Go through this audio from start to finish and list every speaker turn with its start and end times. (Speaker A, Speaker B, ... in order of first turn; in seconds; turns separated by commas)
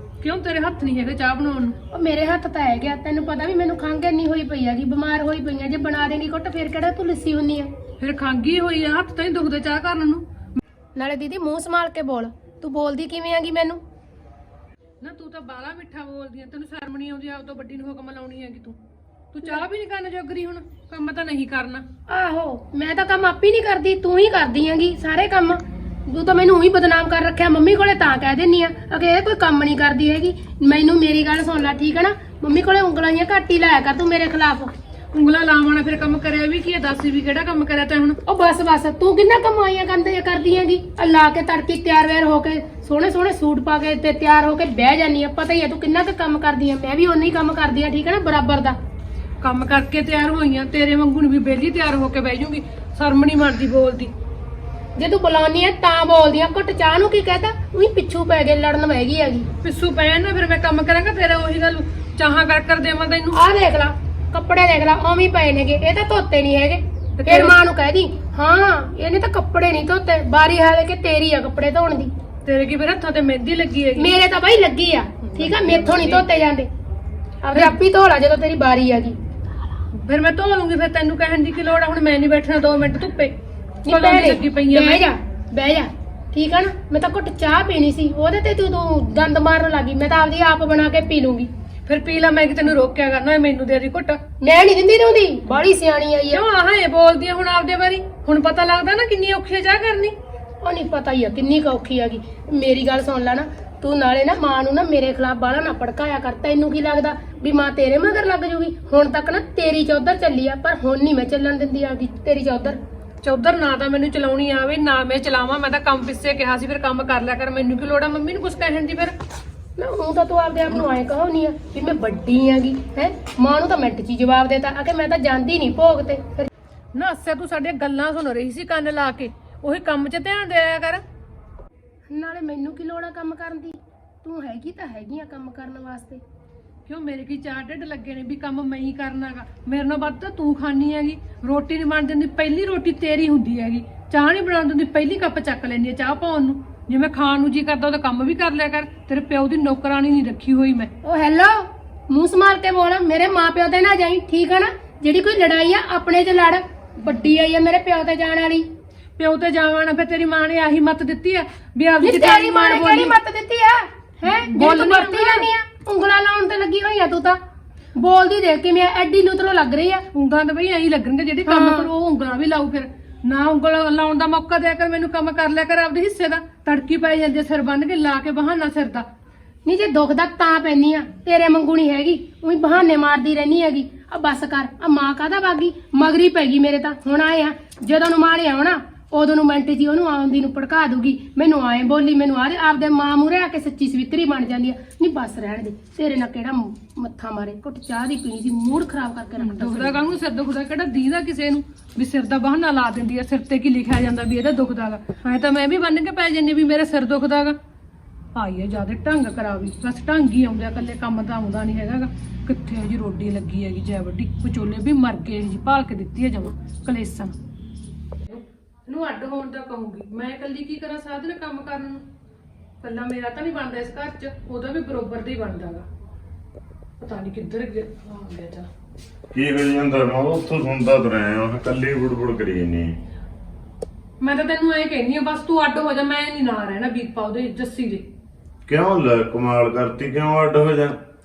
Speaker A: 0.2-1.8, Speaker B: 1.9-7.7, Speaker A: 8.0-10.2, Speaker B: 10.9-13.8, Speaker A: 15.0-18.8, Speaker A: 19.3-21.9, Speaker B: 22.1-34.7, Speaker A: 35.1-38.2, Speaker B: 38.2-48.8, Speaker A: 49.4-54.1, Speaker B: 55.0-59.5, Speaker A: 59.6-63.4, Speaker B: 63.3-72.1, Speaker A: 67.2-67.6, Speaker A: 72.5-74.2, Speaker B: 74.0-76.7, Speaker A: 75.3-76.3, Speaker B: 77.4-79.2, Speaker A: 79.9-85.1, Speaker B: 83.8-91.5, Speaker A: 91.9-94.2, Speaker B: 94.4-96.4, Speaker A: 96.3-100.1, Speaker B: 100.6-112.8, Speaker A: 113.2-119.2, Speaker B: 119.8-126.5, Speaker A: 126.9-131.0, Speaker B: 132.1-136.2, Speaker A: 136.9-150.9, Speaker B: 151.0-158.7, Speaker A: 159.2-163.2, Speaker B: 162.0-167.4, Speaker A: 164.3-165.5, Speaker B: 168.0-170.1, Speaker A: 170.1-179.1, Speaker B: 171.5-171.9, Speaker B: 179.7-200.0, Speaker A: 199.4-207.6, Speaker A: 208.3-217.3, Speaker A: 218.3-222.0, Speaker A: 222.8-225.9, Speaker A: 227.0-228.7, Speaker C: 229.3-233.0, Speaker A: 234.2-238.1, Speaker C: 238.7-241.0